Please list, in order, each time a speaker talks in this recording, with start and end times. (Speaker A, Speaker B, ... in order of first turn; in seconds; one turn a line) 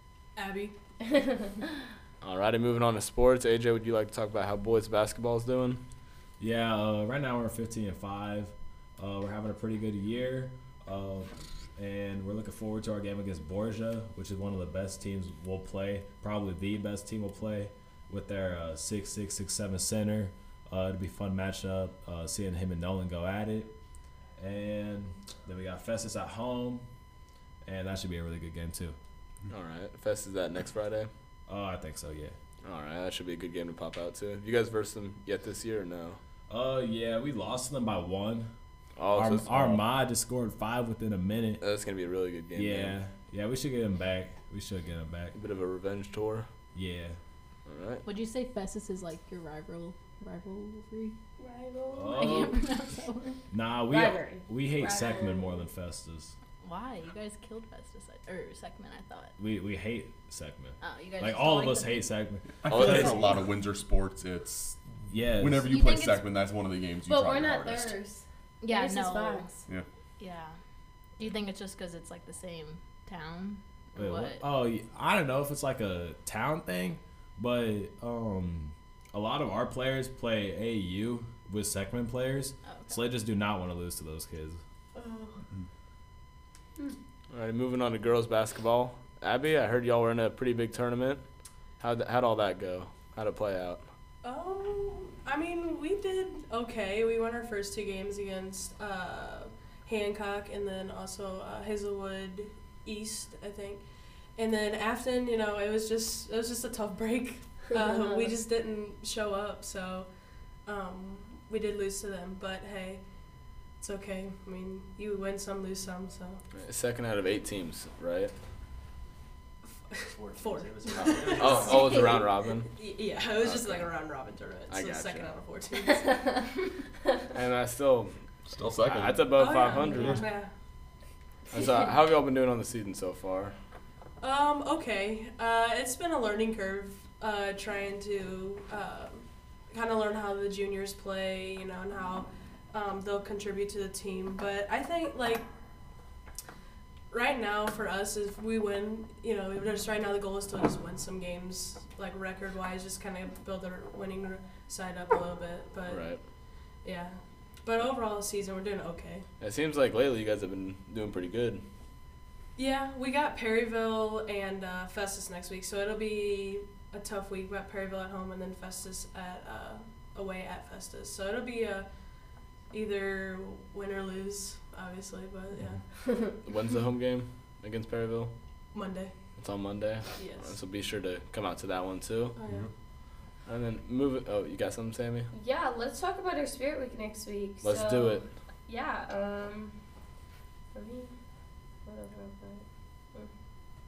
Speaker A: 0.3-0.7
Speaker B: 1.0-1.6
Speaker C: 2.2-5.8
Speaker D: 6.4-23.7
Speaker D: 24.4-26.8
Speaker D: 27.6-29.0
Speaker C: 29.5-31.1
Speaker D: 31.5-32.3
Speaker C: 32.6-36.2
Speaker D: 36.5-38.5
Speaker C: 39.0-39.8
Speaker D: 39.1-41.6
Speaker C: 41.6-43.0
Speaker D: 42.5-45.3
Speaker C: 45.3-46.5
Speaker D: 46.7-47.2
Speaker C: 47.6-48.0
Speaker E: 48.0-51.1
Speaker B: 51.4-52.5
Speaker D: 51.9-52.6
Speaker E: 52.1-53.4
Speaker D: 53.5-56.3
Speaker B: 53.9-55.7
Speaker E: 56.6-59.3
Speaker D: 59.4-63.4
Speaker E: 60.8-62.1
Speaker F: 62.6-64.8
Speaker C: 62.7-63.4
Speaker D: 65.1-65.7
Speaker F: 65.3-68.0
Speaker E: 65.7-66.0
Speaker B: 65.7-66.2
Speaker B: 67.1-69.6
Speaker E: 68.6-69.6
Speaker E: 70.2-70.5
Speaker E: 71.2-74.4
Speaker D: 74.0-84.6
Speaker E: 82.7-83.0
Speaker A: 84.9-85.4
Speaker C: 87.3-91.2
Speaker C: 91.8-93.8
Speaker A: 94.2-103.8
Speaker A: 104.3-110.1
Speaker B: 107.7-108.3
Speaker A: 110.6-113.0
Speaker A: 113.8-116.4
Speaker C: 116.5-118.3
Speaker A: 119.9-126.5
Speaker D: 120.1-121.9
Speaker C: 121.0-122.7
Speaker B: 121.7-122.2
Speaker C: 123.4-123.9
Speaker C: 124.7-125.4
Speaker C: 127.3-130.2
Speaker F: 128.5-129.4
Speaker A: 129.3-130.5
Speaker C: 131.5-133.6
Speaker A: 134.2-145.4
Speaker A: 147.1-156.2
Speaker C: 155.9-156.2
Speaker A: 156.8-159.2
Speaker C: 159.4-161.6
Speaker A: 162.6-171.9
Speaker A: 172.7-175.8
Speaker C: 176.4-178.3
Speaker A: 178.7-179.1
Speaker C: 179.4-182.4
Speaker A: 180.2-180.6
Speaker A: 182.3-182.7
Speaker C: 183.4-185.3
Speaker B: 185.3-189.8
Speaker C: 187.6-188.2
Speaker B: 190.7-191.1
Speaker B: 191.8-193.3